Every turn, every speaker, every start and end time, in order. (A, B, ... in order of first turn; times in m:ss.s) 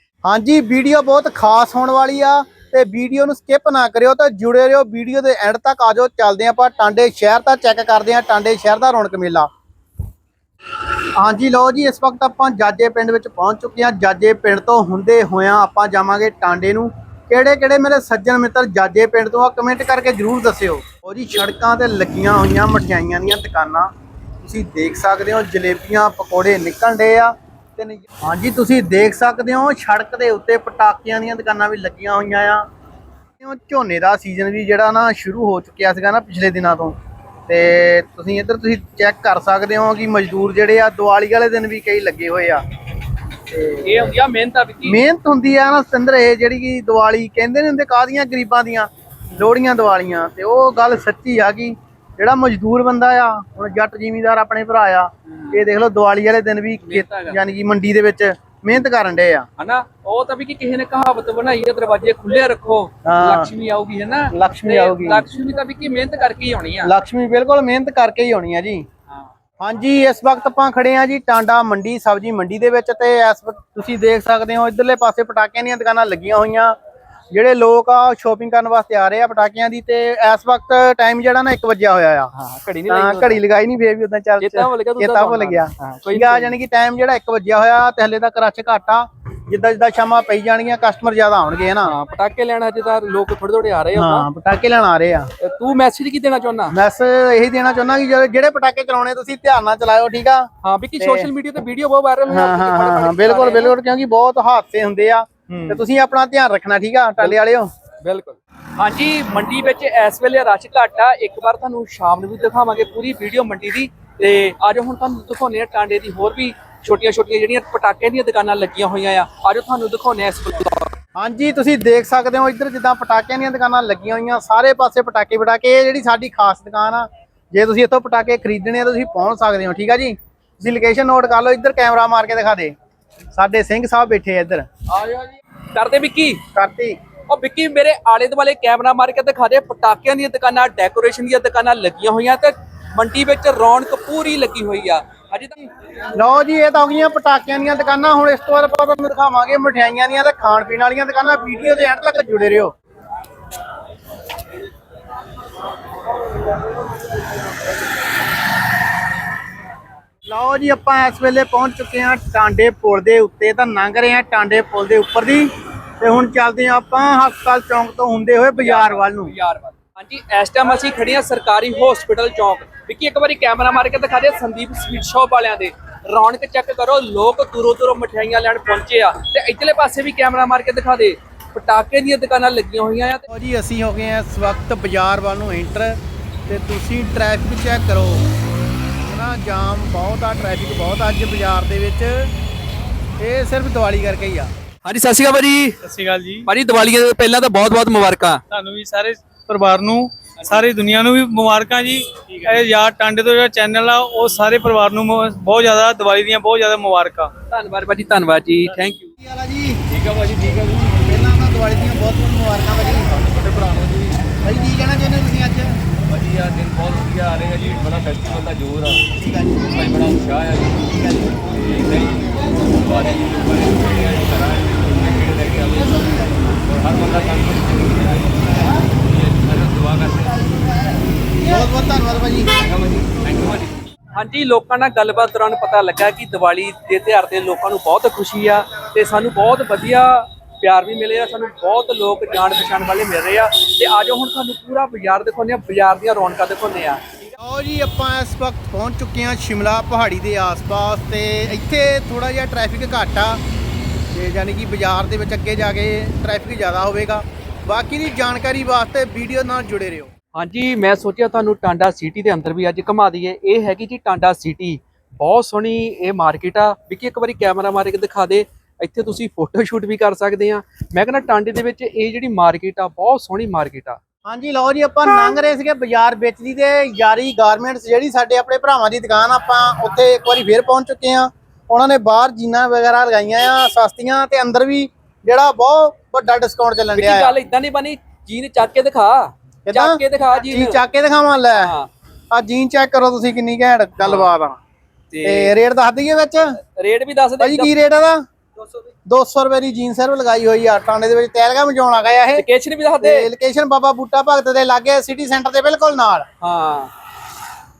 0:00.2-0:09.5 A
0:11.2-0:23.9 A
0:24.4-0:32.6 A
0:33.4-0:37.0 A
0:37.5-0:42.6 A
0:43.5-0:44.0 A
0:43.8-0:45.0 B
0:44.8-0:59.4 A
0:56.8-0:57.4 B
0:59.6-1:06.9 B
1:03.0-1:03.5 A
1:04.3-1:05.2 A
1:06.8-1:08.8 A
1:09.6-1:16.7 A
1:17.3-1:22.3 A
1:22.3-1:23.4 B
1:22.9-1:32.0 A
1:24.4-1:26.6 B
1:31.9-1:34.3 B
1:33.9-1:35.3 A
1:35.4-1:36.7 B
1:36.7-1:41.3 A
1:40.6-1:43.7 B
1:42.3-1:47.7 A
1:45.5-1:45.8 B
1:48.0-2:00.9 B
2:01.2-2:12.8 A
2:13.3-2:14.7 A
2:14.9-2:16.4 B
2:16.5-2:17.0 A
2:17.3-2:25.7 B
2:26.1-2:32.7 A
2:40.2-2:49.3 A
2:48.6-3:03.2 B
3:03.3-3:08.2 A
3:09.0-3:12.3 A
3:13.2-3:14.5 A
3:14.8-3:15.8 B
3:15.8-3:16.5 C
3:16.4-3:18.4 B
3:18.5-3:27.3 C
3:27.5-3:29.1 B
3:29.2-3:29.8 A
3:29.9-3:31.0 D
3:30.9-3:33.9 A
3:34.4-3:35.8 A
3:36.1-3:39.0 D
3:39.1-3:39.9 A
3:39.7-3:50.6 D
3:51.4-3:52.5 A
3:52.6-3:53.9 D
3:54.1-4:07.2 B
4:07.4-4:13.4 A
4:14.1-4:20.1 A
4:20.3-4:34.0 B
4:34.2-4:47.4 A
4:46.9-4:50.8 B
4:49.6-4:51.7 A
4:51.5-4:51.9 B
4:52.3-4:54.6 A
4:54.0-4:54.3 B
4:55.1-4:55.5 B
4:55.2-4:56.6 A
4:56.6-4:57.7 B
4:57.4-4:58.2 A
4:59.1-5:02.4 A
5:02.3-5:03.3 B
5:03.0-5:06.2 A
5:06.4-5:06.9 B